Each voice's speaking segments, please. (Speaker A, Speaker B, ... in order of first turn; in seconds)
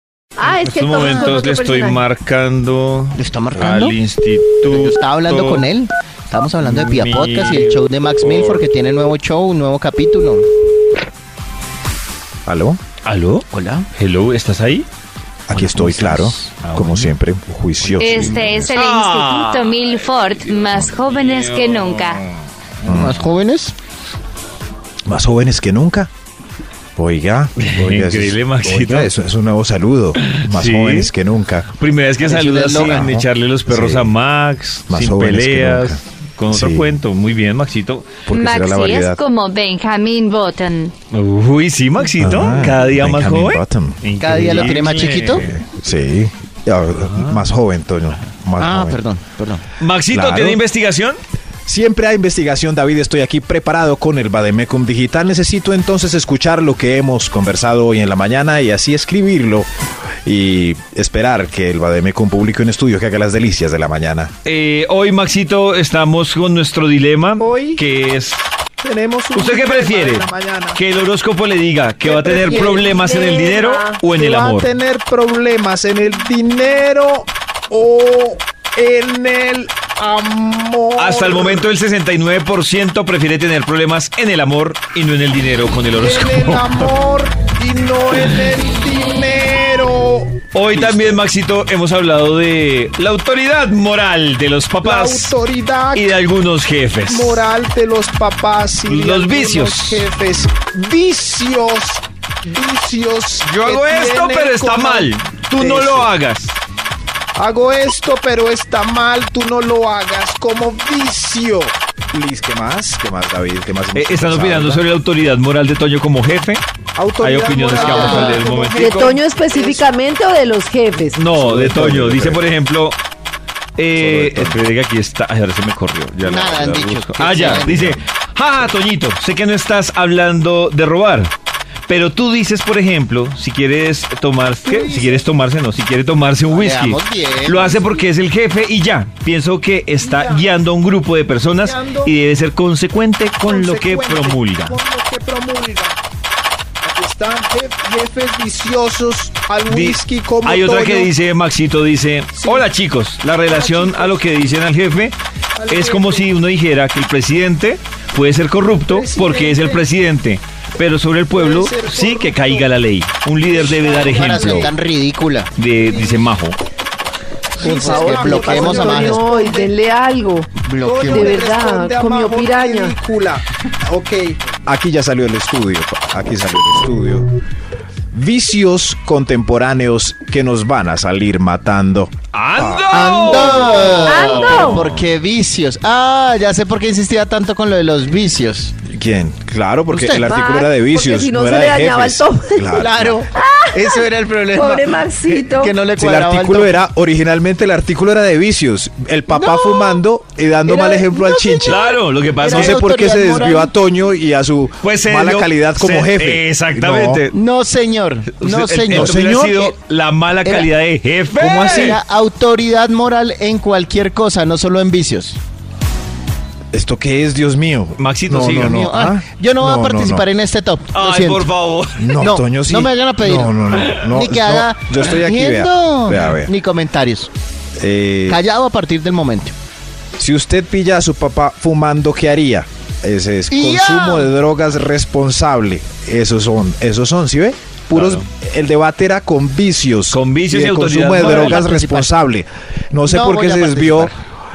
Speaker A: 0.4-2.0, 72.1-74.0, 118.7-121.2, 167.6-170.5, 171.0-172.9, 184.1-184.8, 190.2-195.8
Speaker B: 0.4-5.7, 6.6-8.6, 13.0-14.9, 15.5-17.1, 18.0-19.9, 20.5-22.1, 27.6-29.1, 30.2-31.1, 31.8-38.2, 41.1-45.6, 47.1-47.4, 49.8-51.2, 64.5-68.6, 69.3-74.7, 81.0-86.9, 90.5-95.3, 95.9-97.4, 98.9-100.0, 103.4-106.6, 114.0-116.7, 117.2-119.2, 121.2-123.0, 123.8-131.3, 131.9-144.8, 149.7-155.2, 155.7-164.7, 165.6-166.6, 182.3-185.0, 201.7-203.0, 204.8-207.3, 208.4-212.0, 218.0-218.8, 220.9-222.2, 237.9-238.2, 240.1-241.6
Speaker C: 1.0-1.3, 3.2-4.0, 4.6-10.5, 13.5-13.9, 18.1-18.7, 22.9-23.8, 32.2-33.1, 44.2-45.4, 48.6-49.6, 117.7-118.4, 126.2-128.0, 136.5-137.9, 163.8-165.5, 167.6-169.5, 170.6-171.4, 182.9-188.8, 189.9-190.3, 192.8-196.8, 199.3-200.0, 200.7-203.8, 207.3-209.8, 211.6-215.4, 218.6-221.5, 222.2-227.3, 228.3-229.6, 233.5-234.3, 241.1-242.1, 243.1-244.2
Speaker D: 12.5-12.8, 15.5-18.7, 22.9-23.2, 25.1-26.1, 27.0-31.7, 32.8-34.1, 34.9-37.0, 38.3-39.2, 42.2-49.0, 50.1-50.6, 51.7-59.7, 60.2-64.3, 67.4-67.8, 68.8-70.8, 72.1-72.9, 74.1-81.7, 86.0-91.2, 94.8-96.2, 97.1-106.1, 107.4-114.8, 117.0-119.9, 121.3-122.5, 124.0-124.6, 127.6-128.0, 134.7-135.2, 140.0-140.5, 141.6-142.1, 143.4-146.0, 146.8-151.1, 152.4-152.7, 153.4-154.2, 155.6-156.3, 158.9-159.8, 161.3-162.8, 163.6-164.7, 167.6-169.7, 170.8-177.3, 178.1-184.1, 188.9-193.2, 196.0-201.8, 202.4-207.2, 208.9-209.6, 211.3-212.0, 216.7-220.3, 222.0-226.5, 227.8-228.4, 230.2-244.1
Speaker E: 18.0-22.2, 38.3-40.9